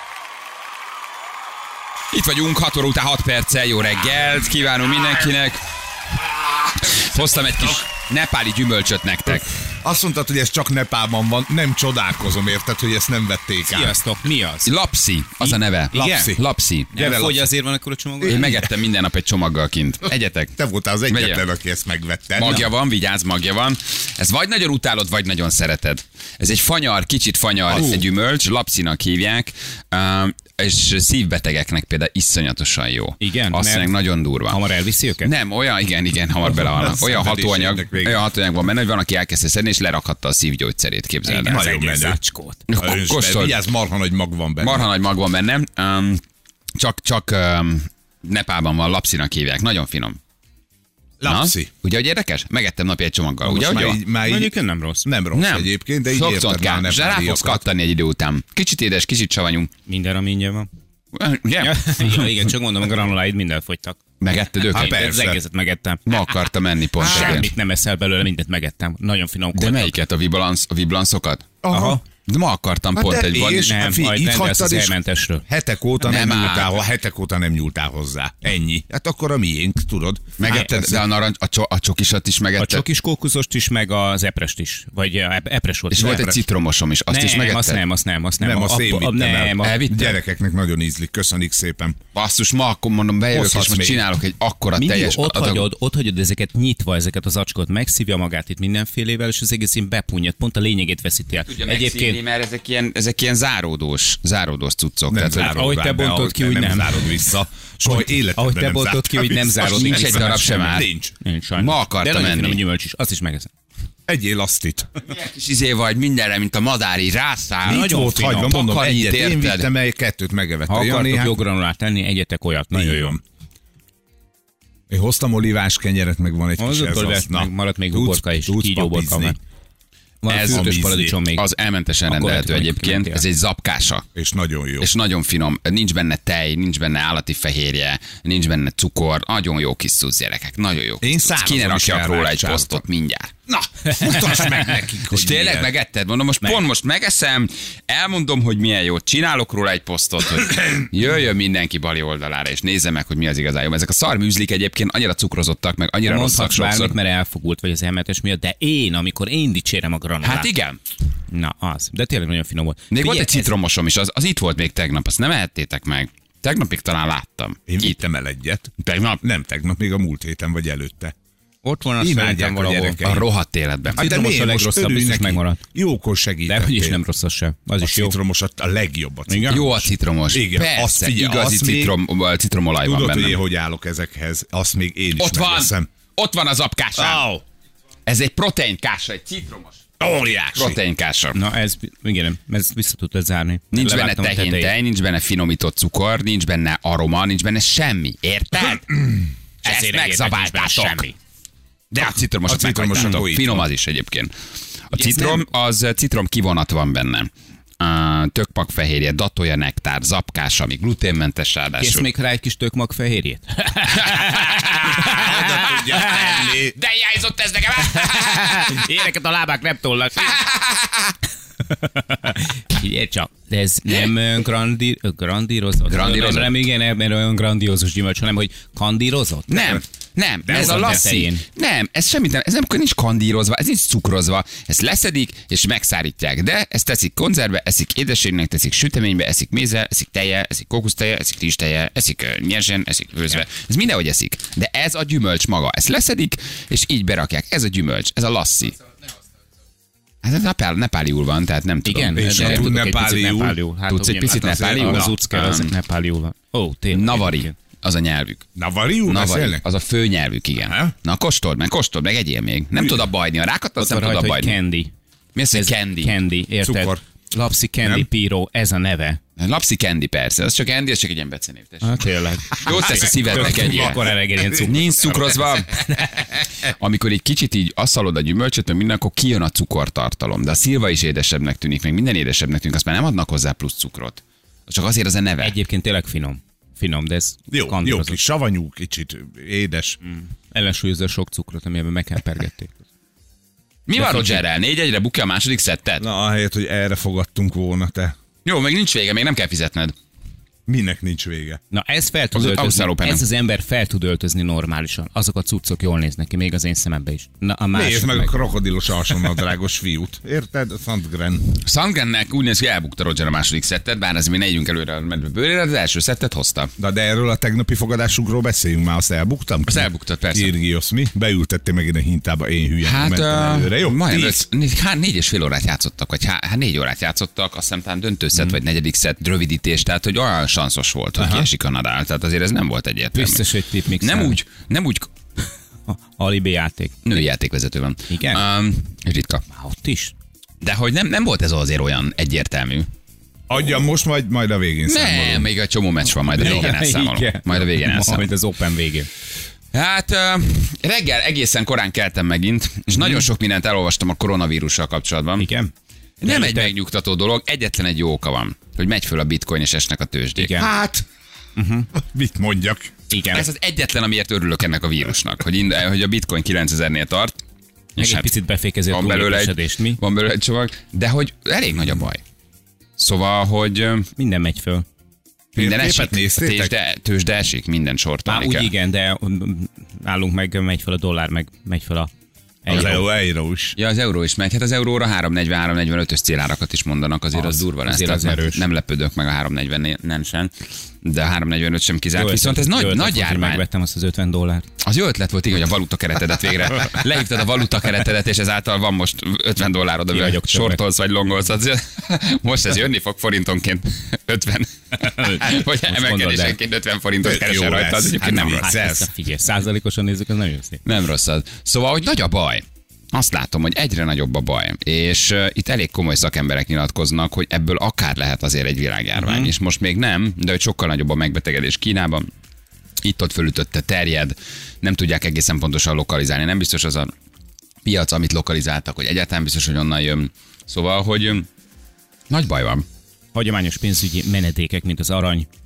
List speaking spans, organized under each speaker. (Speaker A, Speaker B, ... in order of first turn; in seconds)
Speaker A: 2.1-5.6, 6.5-9.5, 14.7-16.9, 18.2-20.5, 21.1-21.4, 22.4-34.6, 35.2-41.6, 42.7-43.6, 44.6-46.2, 46.8-50.2, 51.2-54.0, 55.3-59.7, 61.1-62.3, 64.2-65.0, 66.1-67.5, 69.5-71.6, 72.3-73.7, 76.0-76.8, 80.4-82.8, 85.9-87.8, 89.6-90.2, 92.1-95.7, 101.5-105.6, 109.6-110.9, 111.6-112.6, 115.0-119.7, 130.3-130.8, 131.3-134.1, 134.8-143.3, 144.1-156.9, 160.2-160.8, 162.9-168.0, 168.8-169.2, 173.0-174.0, 179.5-183.4, 185.2-187.2, 188.1-189.8, 190.5-191.4, 193.7-201.1, 201.9-204.3, 204.9-212.1, 214.0-218.9, 220.2-221.1, 225.9-226.6, 229.5-248.8, 250.2-252.7, 253.9-255.7, 256.9-258.5, 259.1-264.6, 265.3-266.1, 269.4-272.0, 272.5-285.5, 293.9-296.1, 298.4-299.9, 302.3-303.2, 311.5-316.7, 319.7-320.5, 322.8-333.4, 334.0-335.1, 337.0-339.4, 340.6-342.9, 344.9-348.3, 349.7-355.5, 356.2-360.5, 363.3-367.4, 368.0-368.3, 368.9-372.2, 373.0-374.1, 375.6-378.7, 382.7-383.0, 383.8-393.6, 394.8-408.7, 410.8-422.3, 423.0-427.1, 427.8-431.5, 432.3-432.8
Speaker B: 9.8-14.0, 15.9-17.5, 18.2-18.6, 20.6-22.7, 27.7-28.0, 36.4-38.2, 41.5-42.2, 42.7-44.9, 51.2-51.7, 53.4-57.6, 64.7-65.4, 67.0-67.5, 71.6-72.0, 72.9-81.0, 86.0-86.4, 88.4-92.0, 93.3-94.0, 105.1-111.1, 114.1-114.9, 117.7-121.4, 122.7-123.2, 124.9-129.4, 130.3-131.2, 134.1-134.9, 141.0-142.8, 143.5-145.7, 167.7-171.1, 172.0-173.3, 173.9-177.0, 177.8-181.9, 182.8-185.9, 186.9-187.4, 190.0-190.8, 202.0-203.7, 215.0-216.8, 252.2-253.6, 254.2-255.2, 258.6-259.6, 260.6-260.9, 266.6-267.0, 267.8-268.1, 273.5-273.9, 287.5-290.0, 296.0-298.1, 300.7-301.6, 307.7-311.5, 316.8-324.4, 331.2-331.5, 343.5-345.5, 346.4-346.7, 360.5-361.1, 361.9-362.9, 375.5-376.7, 382.7-383.8, 407.2-409.1
Speaker C: 13.7-14.7, 15.4-16.3, 16.9-18.6, 33.2-35.3, 41.2-42.6, 54.2-55.0, 59.9-60.7, 61.6-64.0, 64.7-66.3, 67.0-69.9, 71.7-72.0, 73.6-75.5, 82.6-86.3, 87.1-89.8, 94.7-102.2, 105.4-107.1, 107.8-113.5, 117.7-118.5, 120.7-123.2, 126.6-129.4, 130.2-131.4, 132.1-133.2, 156.0-160.5, 161.3-163.5, 171.6-173.0, 173.9-175.6, 176.5-178.2, 179.3-179.6, 191.3-194.7, 199.6-201.1, 204.9-205.4, 211.8-216.0, 217.8-220.4, 221.7-229.8, 230.5-231.4, 251.8-257.5, 263.8-264.9, 265.5-269.2, 271.8-274.8, 285.4-288.2, 290.1-292.8, 293.9-294.4, 301.7-308.5, 333.1-334.4, 335.9-337.0, 338.1-338.4, 339.5-340.1, 346.3-349.1, 355.4-355.7, 356.2-356.7, 360.4-360.7, 361.6-361.9, 363.1-363.5, 368.0-370.0, 374.2-374.8, 378.2-382.1, 382.6-383.1, 387.3-388.6, 392.1-394.6, 400.1-400.8, 405.0-406.6, 408.4-410.8, 419.1-419.5, 433.3-435.5